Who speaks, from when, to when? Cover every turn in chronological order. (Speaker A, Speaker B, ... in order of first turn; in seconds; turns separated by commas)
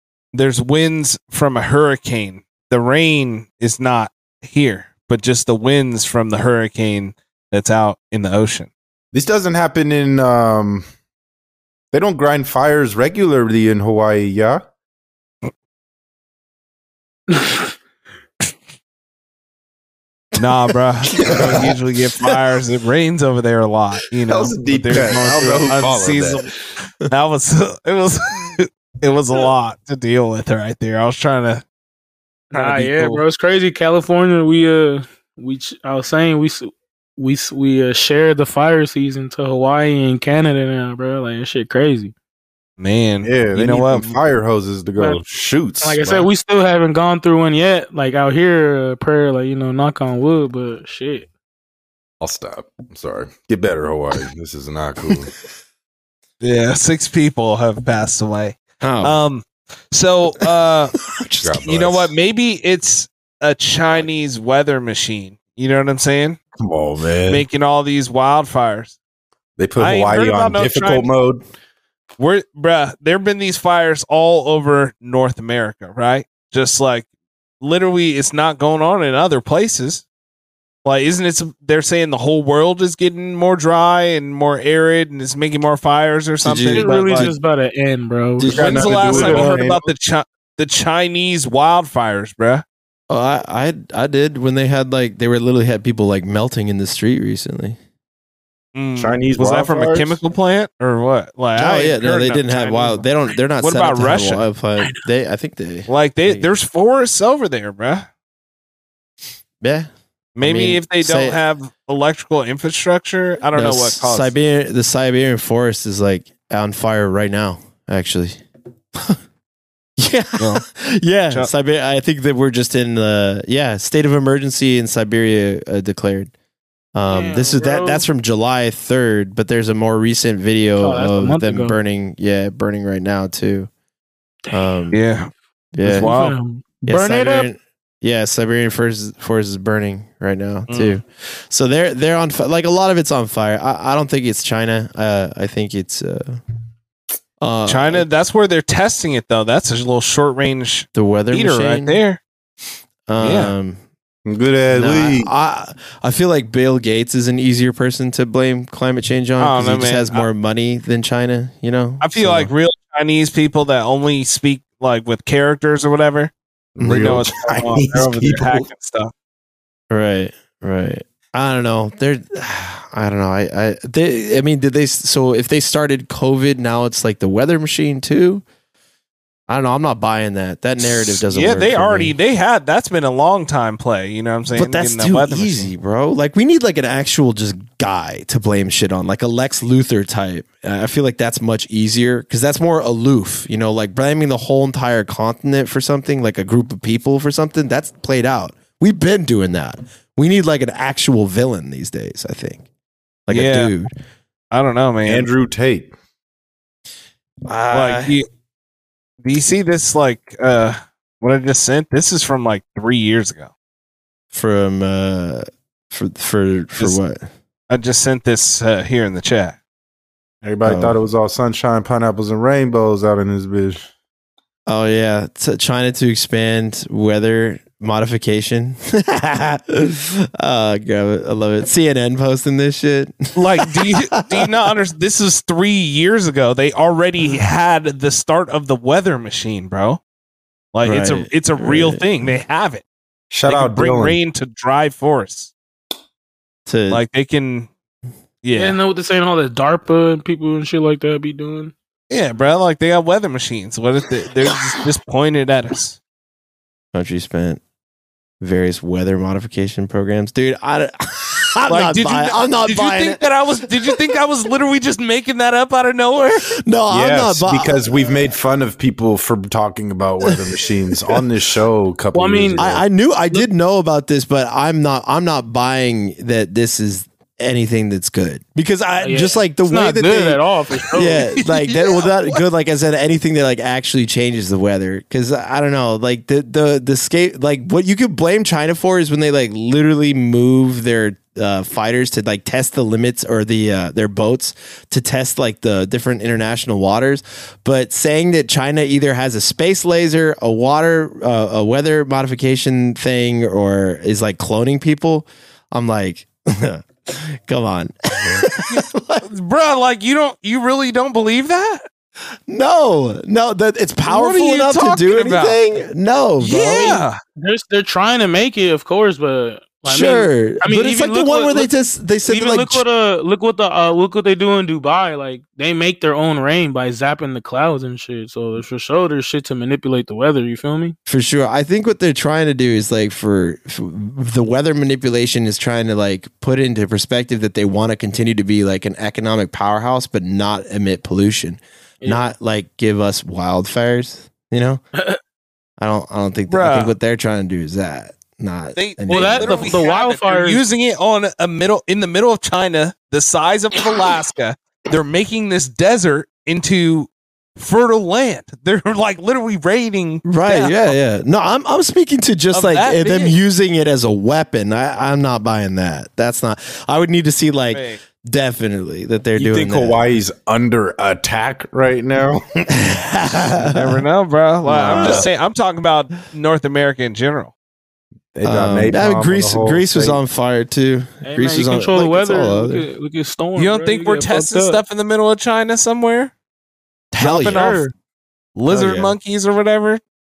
Speaker A: 0.3-8.7, Speaker B: 9.1-10.8, Speaker B: 11.9-14.6, Speaker C: 17.3-17.7, Speaker A: 20.4-26.5, Speaker B: 21.2-21.7, Speaker D: 21.3-21.5, Speaker B: 24.3-26.5, Speaker A: 27.0-31.6, Speaker A: 32.5-33.2, Speaker C: 32.5-42.1, Speaker A: 42.8-44.1, Speaker B: 43.2-46.3, Speaker C: 45.0-45.2, Speaker C: 45.8-51.3, Speaker B: 52.2-55.3, Speaker A: 56.4-61.0, Speaker D: 58.8-59.2, Speaker D: 61.1-61.6, Speaker B: 61.4-62.1, Speaker A: 61.6-66.4, Speaker B: 66.6-67.4, Speaker A: 67.3-69.0, Speaker B: 69.6-71.4, Speaker A: 69.8-71.1, Speaker A: 72.2-77.0, Speaker A: 77.6-80.0, Speaker A: 80.8-87.3, Speaker D: 86.4-87.3, Speaker C: 86.7-89.6, Speaker D: 88.4-88.9, Speaker B: 88.5-89.9, Speaker A: 88.5-92.6, Speaker D: 93.1-97.8, Speaker A: 98.7-103.0, Speaker B: 99.0-100.2, Speaker D: 101.5-106.5, Speaker A: 103.6-104.4, Speaker A: 105.9-108.1, Speaker D: 109.6-109.9, Speaker A: 110.3-114.3, Speaker D: 110.4-111.4, Speaker D: 113.5-118.4, Speaker D: 120.0-126.3, Speaker A: 120.4-120.6, Speaker D: 126.9-133.7, Speaker C: 127.1-128.1, Speaker C: 130.8-131.8, Speaker C: 134.4-134.8, Speaker D: 134.5-135.0, Speaker A: 134.9-135.3, Speaker D: 135.7-136.1, Speaker A: 135.8-136.4, Speaker C: 135.8-137.5, Speaker D: 136.8-146.4, Speaker A: 140.7-141.0, Speaker D: 147.4-148.1, Speaker A: 147.7-152.2, Speaker D: 150.9-152.0, Speaker D: 153.1-153.8, Speaker A: 153.2-153.5, Speaker B: 154.2-155.3, Speaker D: 154.7-162.5, Speaker A: 159.4-160.3, Speaker A: 162.0-166.3, Speaker B: 166.8-168.7, Speaker D: 166.8-167.2, Speaker A: 166.8-169.1, Speaker D: 169.9-178.4, Speaker D: 179.5-182.1, Speaker A: 181.2-185.7, Speaker D: 184.5-202.6, Speaker D: 203.3-203.9, Speaker A: 203.3-203.7, Speaker A: 204.5-205.3, Speaker B: 205.0-205.9, Speaker D: 207.4-208.2, Speaker A: 207.7-208.3, Speaker A: 209.2-213.5, Speaker D: 214.3-217.2, Speaker A: 217.7-219.6, Speaker B: 220.4-223.8, Speaker D: 220.6-220.9, Speaker D: 224.7-234.5, Speaker A: 233.3-240.0, Speaker A: 240.7-242.8, Speaker D: 240.8-242.1, Speaker B: 243.3-244.2, Speaker A: 243.5-245.5, Speaker D: 246.7-247.0, Speaker A: 246.9-247.7, Speaker A: 248.4-248.8, Speaker C: 248.5-251.7, Speaker A: 252.1-256.0, Speaker D: 256.9-257.6, Speaker D: 258.4-263.2, Speaker A: 261.7-266.5, Speaker D: 266.5-267.9, Speaker B: 266.9-272.8, Speaker D: 270.2-270.5, Speaker C: 272.1-272.6, Speaker D: 272.6-280.4, Speaker C: 279.0-281.4, Speaker D: 280.9-309.3, Speaker A: 281.4-282.4, Speaker A: 308.6-311.8, Speaker D: 312.5-317.0, Speaker A: 314.1-315.6, Speaker A: 316.4-317.2, Speaker C: 316.6-321.7, Speaker D: 319.8-322.8, Speaker C: 322.2-330.9, Speaker D: 331.1-344.8, Speaker C: 342.0-342.3, Speaker D: 345.8-349.8, Speaker A: 346.5-346.9, Speaker A: 348.8-360.9, Speaker C: 349.1-350.6, Speaker D: 360.2-370.0, Speaker A: 362.5-363.3, Speaker A: 367.7-368.0, Speaker B: 369.4-372.6, Speaker D: 372.7-373.9, Speaker A: 373.6-377.5, Speaker D: 374.6-375.2, Speaker B: 374.9-375.2, Speaker B: 378.3-380.2, Speaker D: 378.4-382.9, Speaker C: 381.2-384.8, Speaker A: 383.6-386.3, Speaker D: 387.1-387.8, Speaker A: 387.2-387.9, Speaker C: 387.4-387.9, Speaker A: 388.6-390.0, Speaker D: 388.7-389.1